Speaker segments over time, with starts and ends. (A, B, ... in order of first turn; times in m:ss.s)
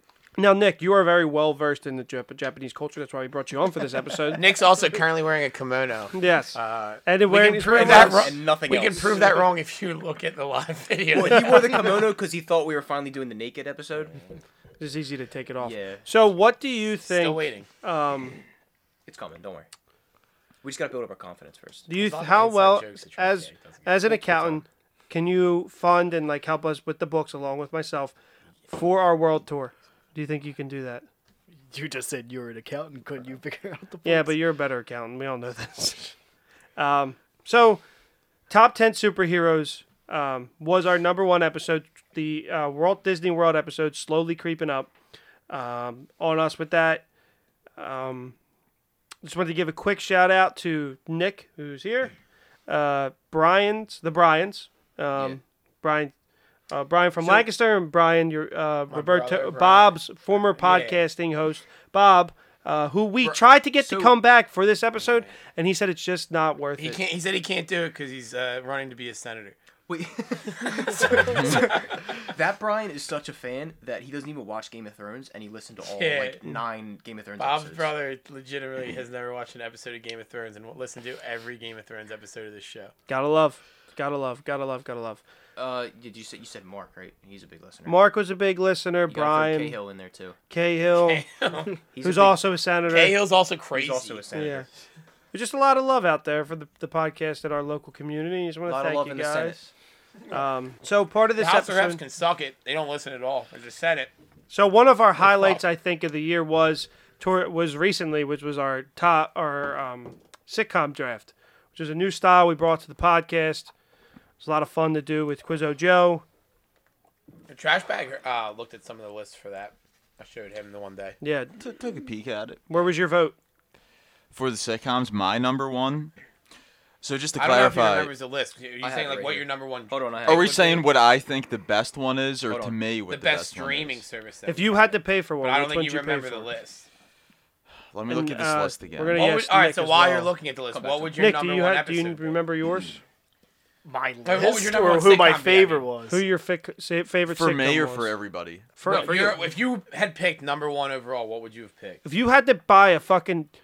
0:00.4-0:04.4 A
0:04.3-0:12.0 B
0:06.1-0:08.3 A
0:07.7-0:09.4 C
0:11.1-0:14.2 C
0:14.8-0:18.4 A
0:15.6-0:16.1 C
0:17.1-0:17.7 B
0:19.0-0:19.7 C
0:20.6-0:21.9 C
0:21.9-0:28.1 A
0:21.9-0:24.6 B
0:28.7-0:31.0 A
0:31.7-0:34.4 D
0:34.0-0:36.1 A
0:36.8-0:37.8 A
0:38.5-0:44.9 A
0:45.5-0:47.0 A
0:47.8-0:48.4 A
0:49.2-0:52.1 A
0:52.7-0:56.1 A
0:56.7-1:07.0 A
0:57.2-0:57.4 B
0:58.9-1:00.0 B
1:00.5-1:01.0 B
1:03.2-1:04.2 C
1:05.0-1:05.3 B
1:06.8-1:09.6 B
1:09.9-1:17.9 C
1:15.9-1:16.4 B
1:17.4-1:22.9 B
1:23.1-1:25.2 A
1:25.6-1:28.0 C
1:27.8-1:29.8 A
1:29.1-1:30.4 C
1:30.5-1:31.2 A
1:30.9-1:31.8 B
1:31.9-1:32.4 C
1:32.0-1:33.2 A
1:32.9-1:34.2 B
1:33.7-1:34.7 C
1:34.3-1:34.7 A
1:35.3-1:39.6 A
1:38.6-1:39.7 C
1:40.3-1:42.0 A
1:41.4-1:44.1 B
1:44.5-1:53.7 A
1:54.4-1:56.2 A
1:57.5-2:01.2 B
2:01.2-2:01.5 A
2:01.6-2:02.6 E
2:02.7-2:03.3 A
2:04.3-2:06.1 E
2:07.0-2:08.1 E
2:07.3-2:10.8 B
2:08.8-2:10.6 C
2:10.2-2:14.0 E
2:12.5-2:12.8 C
2:13.1-2:16.9 B
2:14.4-2:16.5 A
2:17.9-2:19.3 E
2:18.1-2:20.3 A
2:19.1-2:22.4 B
2:20.7-2:21.3 C
2:21.2-2:23.0 A
2:23.8-2:26.2 D
2:24.2-2:25.9 B
2:26.1-2:28.1 A
2:27.3-2:28.7 E
2:28.8-2:29.2 A
2:28.8-2:29.5 C
2:28.8-2:32.0 B
2:32.0-2:33.5 A